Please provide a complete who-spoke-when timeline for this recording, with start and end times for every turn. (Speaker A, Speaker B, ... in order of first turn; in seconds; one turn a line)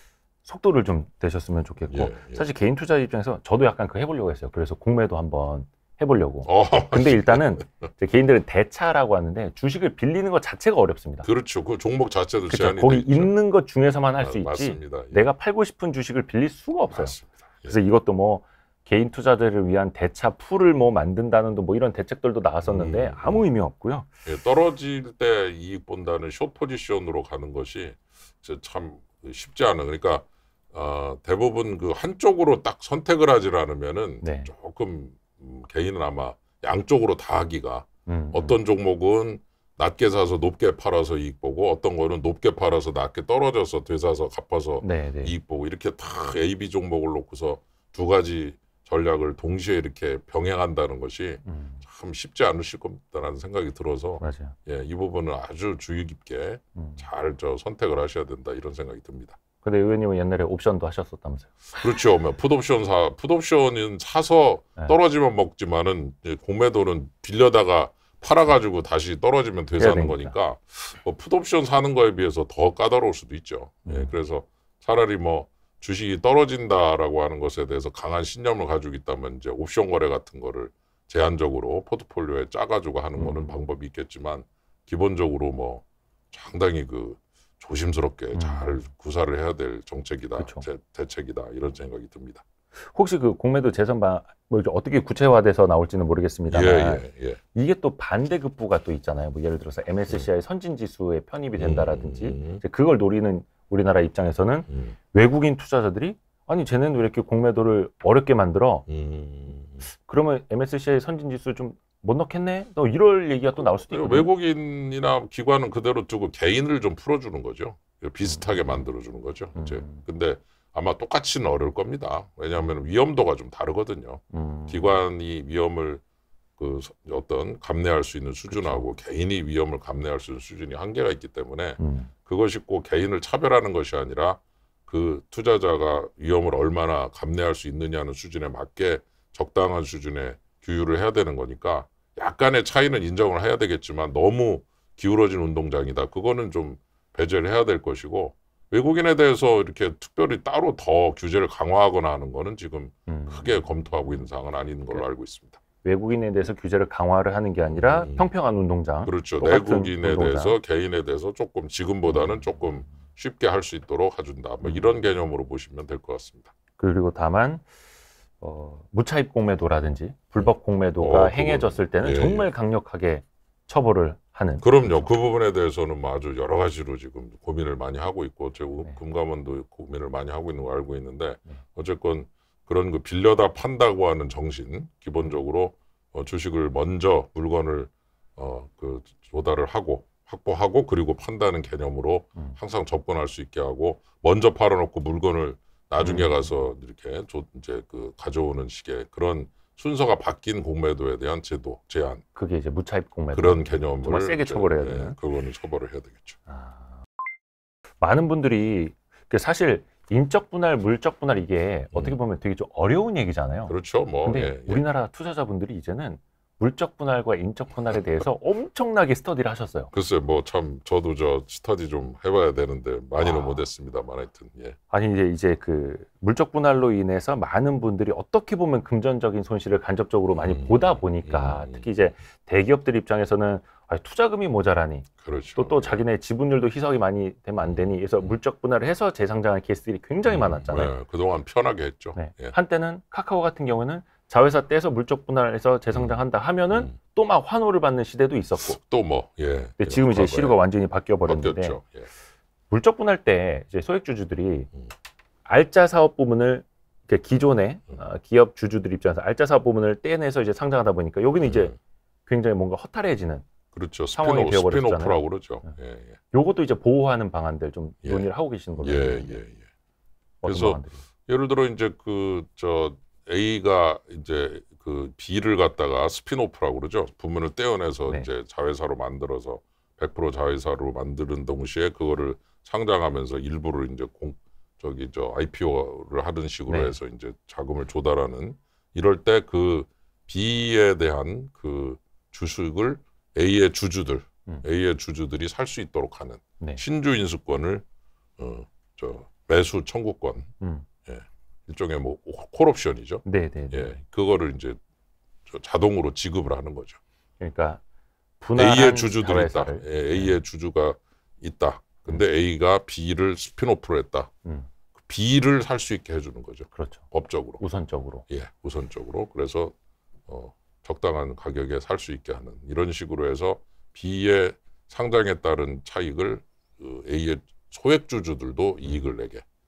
Speaker A: 0.5-11.3
Speaker B: 1.9-2.4
Speaker B: 6.5-7.9
Speaker B: 11.2-13.3
Speaker A: 12.5-17.1
Speaker B: 14.2-15.3
Speaker B: 16.9-17.8
Speaker A: 17.7-24.1
Speaker B: 22.6-23.4
Speaker B: 24.2-59.4
Speaker A: 34.2-34.5
Speaker A: 38.1-38.6
Speaker A: 44.8-45.4
Speaker A: 51.4-51.8
Speaker A: 54.2-54.6
Speaker A: 56.8-57.0
Speaker A: 59.6-61.5
Speaker B: 61.8-92.4
Speaker A: 69.8-70.3
Speaker A: 73.9-74.1
Speaker A: 83.2-83.6
Speaker A: 88.3-88.8
Speaker A: 90.4-90.7
Speaker A: 92.8-108.8
Speaker B: 96.5-97.4
Speaker B: 101.6-102.6
Speaker B: 104.7-105.0
Speaker B: 108.9-109.9
Speaker A: 109.9-114.3
Speaker B: 113.6-126.0
Speaker A: 118.2-118.9
Speaker A: 119.5-120.0
Speaker A: 124.3-125.0
Speaker B: 126.6-155.6
Speaker A: 128.5-128.9
Speaker A: 131.8-132.1
Speaker A: 153.1-153.7
Speaker A: 155.8-160.6
Speaker B: 157.6-158.3
Speaker B: 159.1-166.5
Speaker A: 162.1-162.7
Speaker A: 164.6-165.0
Speaker A: 166.8-167.7
Speaker A: 168.4-175.1
Speaker B: 170.4-172.5
Speaker B: 174.6-202.2
Speaker A: 196.0-196.5
Speaker A: 202.3-205.2
Speaker B: 203.3-206.4
Speaker A: 206.5-207.0
Speaker A: 208.0-219.9
Speaker B: 211.9-212.2
Speaker B: 213.7-214.8
Speaker B: 219.9-224.8
Speaker A: 223.2-223.7
Speaker A: 224.9-240.9
Speaker B: 230.3-231.9
Speaker B: 235.2-236.0
Speaker B: 237.6-238.3
Speaker B: 240.2-242.6
Speaker A: 242.2-248.8
Speaker B: 245.9-246.2
Speaker B: 248.6-250.6
Speaker A: 249.8-251.8
Speaker B: 251.3-252.1
Speaker A: 252.7-254.7
Speaker A: 255.4-261.7
Speaker B: 261.4-261.8
Speaker A: 262.3-263.5
Speaker B: 263.7-266.2
Speaker A: 264.1-265.2
Speaker A: 266.3-269.4
Speaker B: 268.8-269.7
Speaker A: 270.4-271.0
Speaker B: 270.4-297.9
Speaker A: 286.7-287.0
Speaker B: 298.4-300.5
Speaker A: 300.6-300.9
Speaker B: 301.1-304.8
Speaker A: 303.2-304.0
Speaker B: 305.5-307.0
Speaker A: 307.4-307.8
Speaker A: 308.4-310.4
Speaker B: 308.6-314.3
Speaker B: 315.0-317.6
Speaker A: 316.7-317.1
Speaker A: 317.6-318.2
Speaker B: 318.3-319.7
Speaker B: 320.3-329.4